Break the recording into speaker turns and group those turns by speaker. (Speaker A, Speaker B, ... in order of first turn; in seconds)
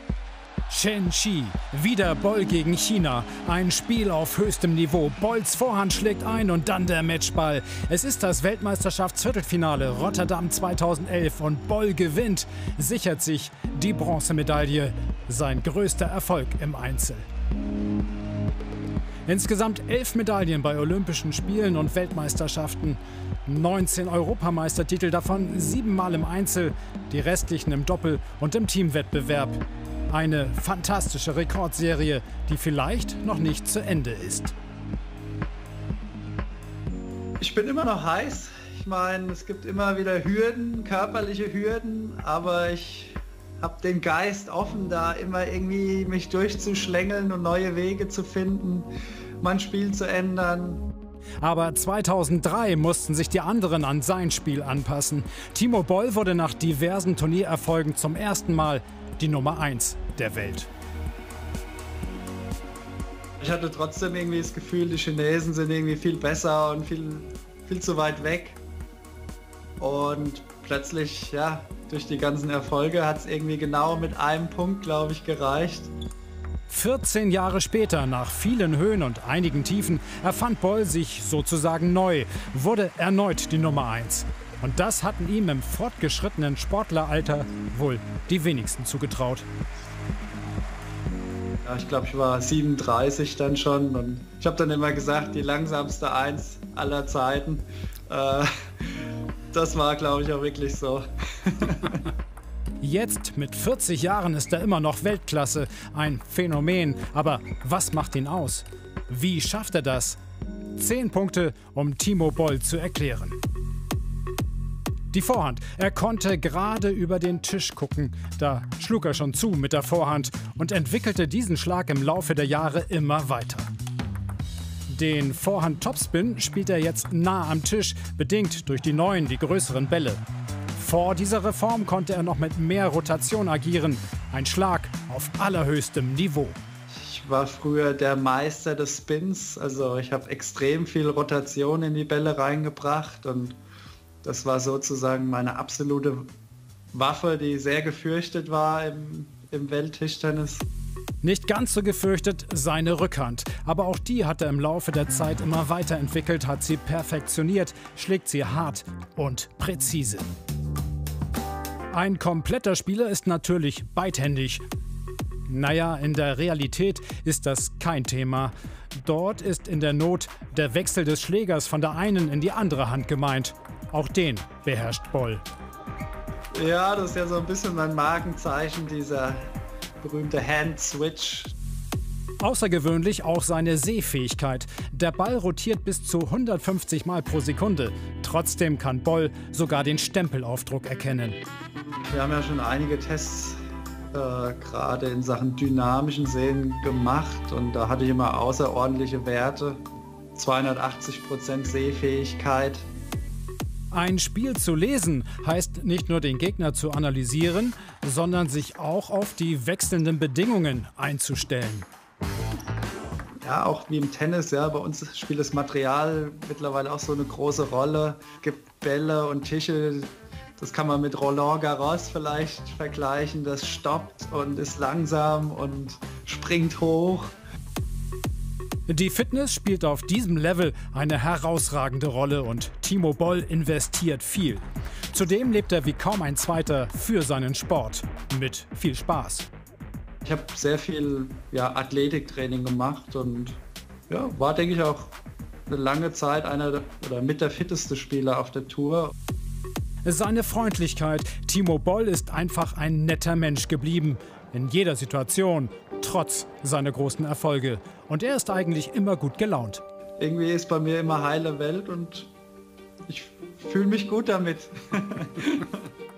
Speaker A: 0.7-17.2, 19.3-34.5, 51.4-60.7, 76.7-89.5, 102.8-110.2, 110.8-113.4, 115.1-123.7, 124.9-130.2, 130.7-136.6, 151.2-160.3, 161.9-164.6, 165.5-175.4, 182.4-191.4, 203.9-211.9, 228.9-239.5, 250.1-259.8
Speaker B: 37.4-48.9, 49.4-50.9, 63.4-68.6, 69.8-75.9, 91.6-102.1, 136.9-143.6, 144.2-146.3, 146.9-150.7, 176.5-179.4, 180.0-181.5, 192.1-193.6, 194.1-199.8, 200.3-202.9, 213.4-227.3, 240.2-245.1, 245.7-249.1, 260.2-262.3, 263.1-265.8